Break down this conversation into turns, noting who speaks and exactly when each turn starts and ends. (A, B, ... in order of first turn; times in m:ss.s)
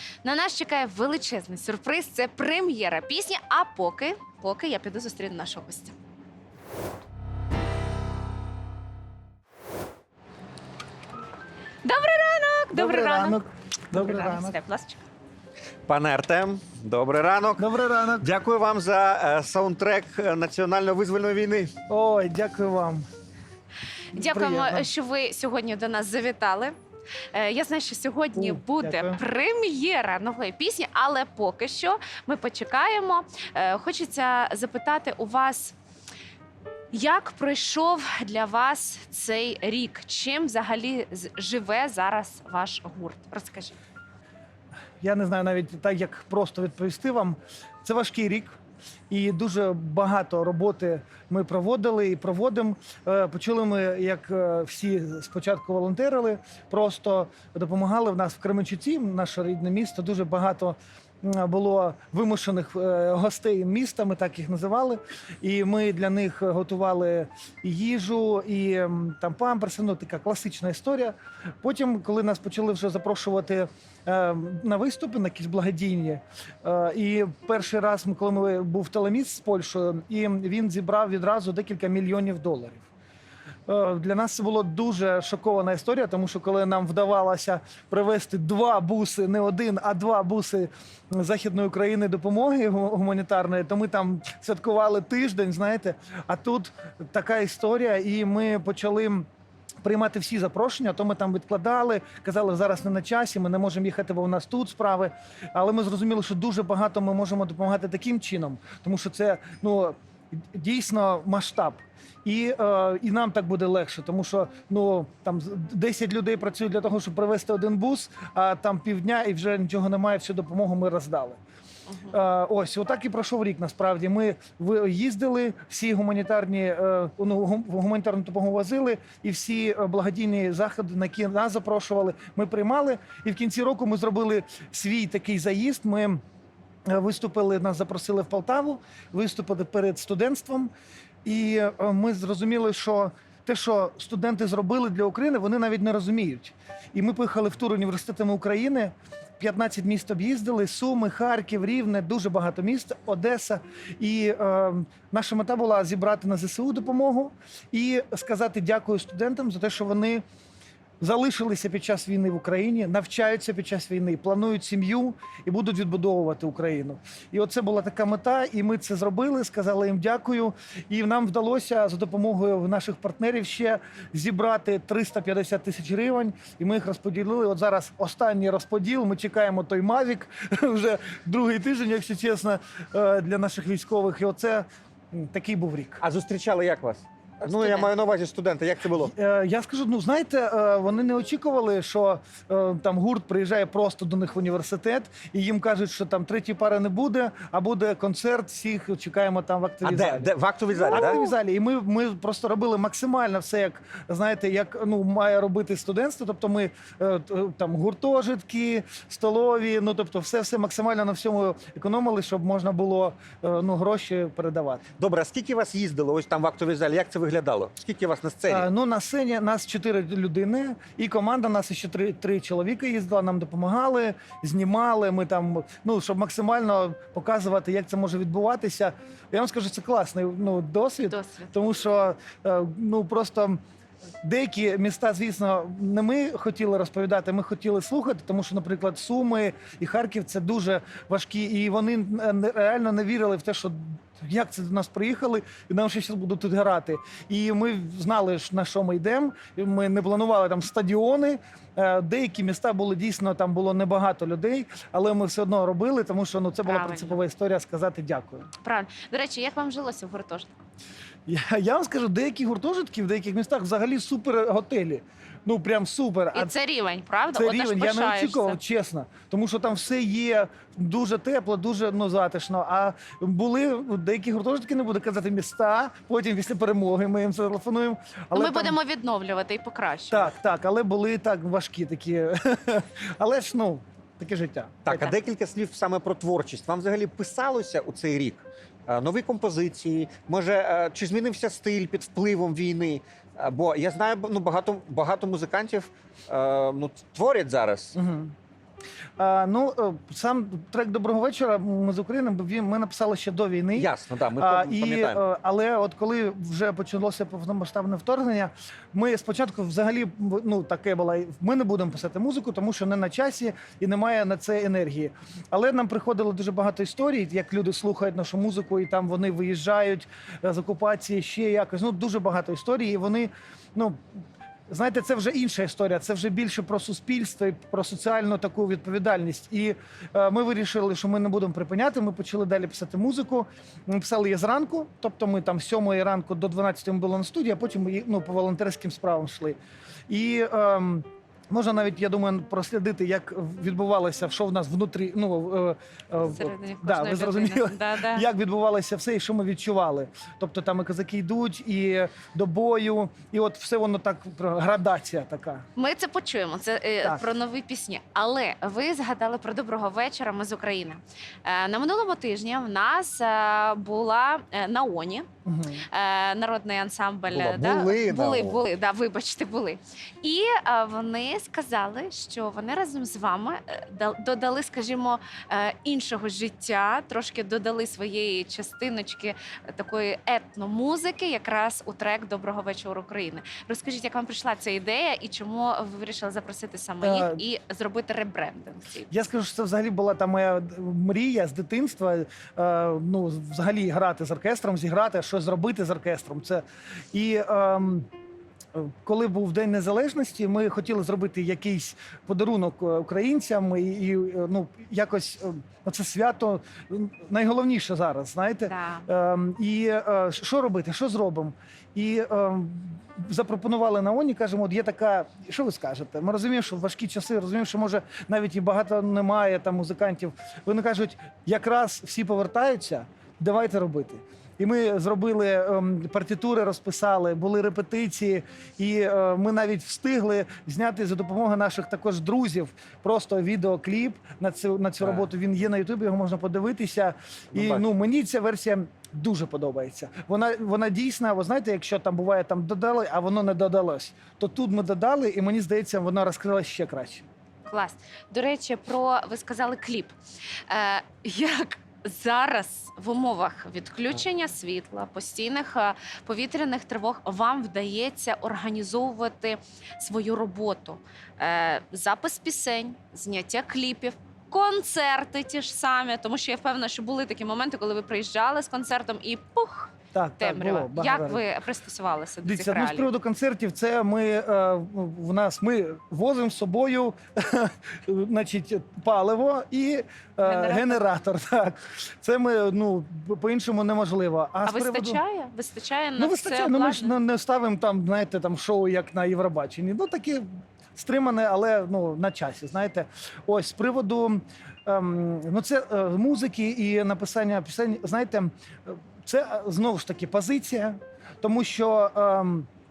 0:00.2-0:05.9 A
0:11.8-0:15.0 A
0:12.7-0:14.6 B
0:15.9-0:17.7 C
0:17.6-0:18.3 B
0:18.2-0:21.7 C
0:21.9-0:23.0 B
0:24.1-0:26.7 A
0:24.1-0:24.9 B
0:27.3-0:35.7 A
0:28.3-0:29.2 B
0:36.9-0:43.8 A
0:45.0-0:48.6 B
0:49.1-1:22.8 B
1:23.7-1:39.3 B
1:39.8-2:01.4 B
2:01.9-2:02.2 A
2:02.1-2:16.2 B
2:16.9-2:20.7 B
2:21.2-2:40.2 B
2:41.0-3:06.0 B
3:06.0-3:09.1 C
3:07.5-3:07.9 A
3:09.0-3:34.8 B
3:19.8-3:21.2 C
3:35.0-3:38.7 C
3:38.5-3:53.6 B
3:51.1-3:51.5 A
3:54.2-4:18.5 B
4:16.6-4:17.2 A
4:18.6-4:20.6 A
4:21.3-4:26.5 B
4:26.3-4:28.6 A
4:27.3-4:38.8 B
4:38.3-4:40.3 A
4:40.1-4:45.1 B
4:44.8-4:58.0 C
4:57.9-4:58.3 B
4:59.2-5:24.0 B
5:03.7-5:05.2 C
5:24.7-5:39.6 B
5:40.1-5:55.6 B
5:46.2-5:48.3 A
5:55.8-6:05.3 A
6:05.4-6:05.8 B
6:05.9-6:29.1 A
6:07.3-6:08.6 C
6:27.0-6:27.4 B
6:29.1-6:38.1 B
6:38.7-7:27.2 B
6:48.7-6:49.1 A
7:15.0-7:15.3 C
7:17.5-7:17.8 C
7:27.6-7:30.1 A
7:30.7-7:53.1 A
7:50.1-7:51.4 B
7:52.4-8:05.2 B
8:00.4-8:01.0 A
8:04.6-8:07.1 A
8:06.2-8:22.7 B